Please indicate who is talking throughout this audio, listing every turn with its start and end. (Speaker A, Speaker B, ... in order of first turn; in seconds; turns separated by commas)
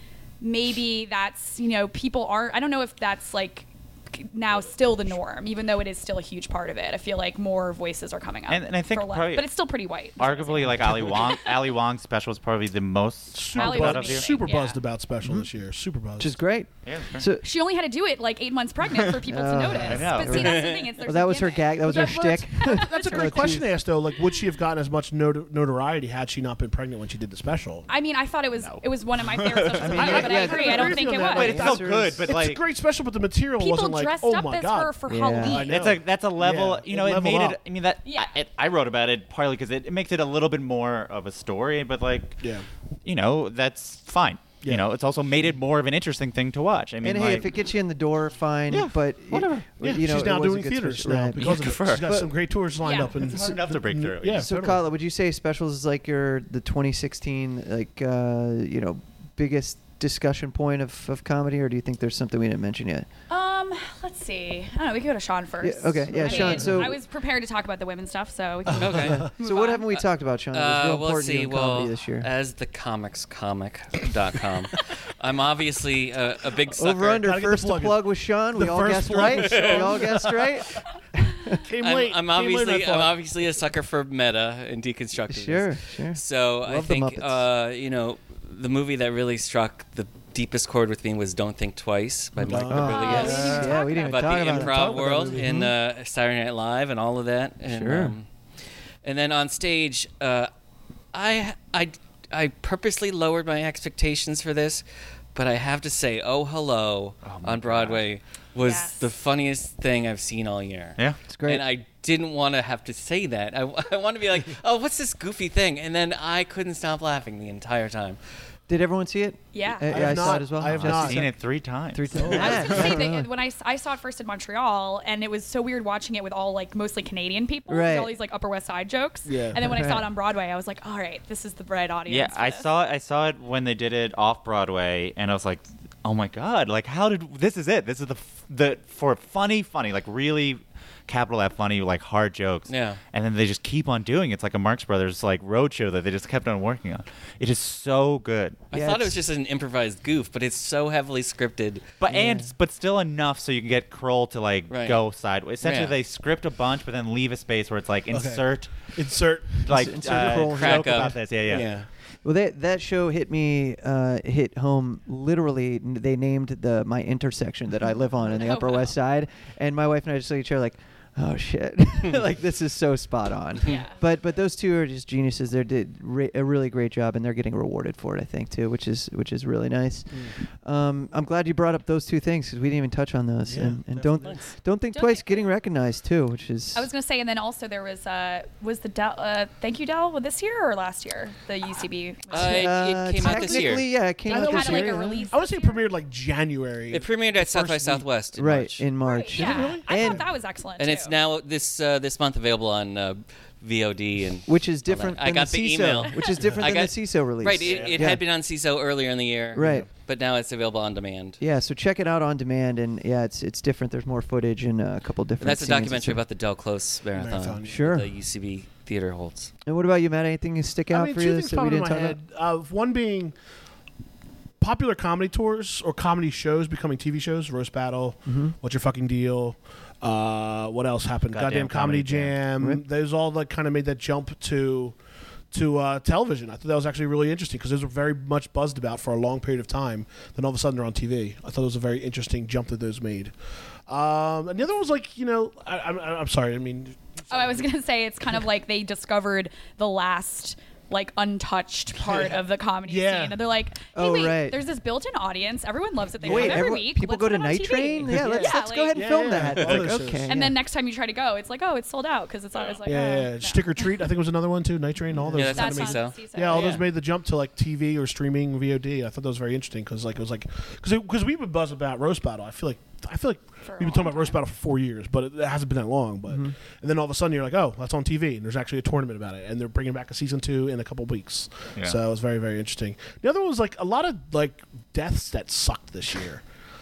Speaker A: 0.4-11.6, Speaker B: 8.5-9.5, Speaker B: 10.2-14.4, Speaker C: 13.3-16.4, Speaker A: 13.5-14.8, Speaker D: 16.2-17.4, Speaker B: 16.8-17.2, Speaker A: 17.4-23.6, Speaker D: 19.2-23.7, Speaker B: 19.8-20.7, Speaker E: 20.4-20.9, Speaker C: 21.8-27.9, Speaker A: 27.9-31.7, Speaker B: 28.6-32.6, Speaker C: 29.8-37.6, Speaker D: 29.9-32.2, Speaker A: 33.6-35.9, Speaker D: 35.1-35.6, Speaker B: 35.6-42.4, Speaker A: 38.0-38.3, Speaker B: 43.0-47.5, Speaker D: 47.0-52.3, Speaker C: 48.7-54.8, Speaker B: 51.4-52.2, Speaker A: 52.8-53.2, Speaker B: 53.0-54.5, Speaker D: 54.3-63.1, Speaker A: 63.3-69.8, Speaker D: 65.6-67.0, Speaker C: 66.1-66.8, Speaker E: 68.7-69.6, Speaker C: 68.8-69.2, Speaker D: 69.0-72.3, Speaker E: 70.5-77.2, Speaker D: 76.8-81.6, Speaker C: 77.1-80.4, Speaker E: 79.1-80.2, Speaker C: 81.6-83.2, Speaker E: 81.8-98.3, Speaker D: 85.3-87.4, Speaker D: 92.4-95.7, Speaker C: 92.4-93.8, Speaker A: 92.8-94.4, Speaker C: 94.4-95.6, Speaker D: 97.7-98.1, Speaker E: 99.0-100.5, Speaker E: 101.1-104.8, Speaker E: 105.3-118.2, Speaker B: 107.2-108.0, Speaker A: 108.6-109.1, Speaker D: 111.3-111.7, Speaker D: 118.7-121.3, Speaker A: 119.5-120.3, Speaker C: 119.8-121.3, Speaker B: 120.6-122.6, Speaker D: 121.9-123.3, Speaker C: 122.1-123.0, Speaker A: 122.3-132.7, Speaker D: 127.7-128.1, Speaker C: 129.2-129.9, Speaker D: 129.5-130.1, Speaker B: 132.1-148.6, Speaker E: 142.7-143.0, Speaker E: 148.7-151.8, Speaker D: 148.7-149.2, Speaker B: 152.0-158.9, Speaker D: 152.1-152.5, Speaker E: 154.7-155.0, Speaker E: 155.6-155.9, Speaker C: 158.1-160.4, Speaker B: 159.5-161.7, Speaker D: 159.7-161.7, Speaker E: 160.5-161.1, Speaker C: 161.5-161.9, Speaker D: 162.2-186.9, Speaker A: 168.4-168.9, Speaker A: 173.6-173.9, Speaker C: 183.5-184.0, Speaker E: 183.9-184.5, Speaker A: 184.9-185.4, Speaker A: 186.7-195.9, Speaker E: 192.3-193.9, Speaker D: 192.4-195.2, Speaker C: 194.3-198.0, Speaker E: 196.9-198.8, Speaker D: 198.3-200.2, Speaker A: 199.0-201.2, Speaker C: 199.3-200.2, Speaker E: 200.8-211.4, Speaker D: 204.4-208.2, Speaker B: 207.6-208.1, Speaker D: 209.5-209.9, Speaker C: 209.6-209.9, Speaker D: 211.4-216.2, Speaker E: 215.4-219.5, Speaker C: 217.2-217.9, Speaker D: 217.6-218.1, Speaker D: 219.7-222.2, Speaker C: 220.9-223.3, Speaker C: 224.6-234.9, Speaker D: 228.2-228.5, Speaker E: 231.3-232.3, Speaker D: 232.6-232.8, Speaker C: 235.5-243.3, Speaker C: 243.9-247.7, Speaker A: 247.3-259.4, Speaker C: 252.0-252.3, Speaker C: 252.9-253.4, Speaker D: 253.9-254.6, Speaker D: 256.2-260.5, Speaker C: 256.2-256.7, Speaker C: 258.1-260.4, Speaker E: 259.5-259.8, Speaker A: 260.3-264.1, Speaker C: 262.8-286.4, Speaker E: 265.3-266.9, Speaker A: 265.5-266.9, Speaker A: 273.6-274.4, Speaker D: 276.3-276.5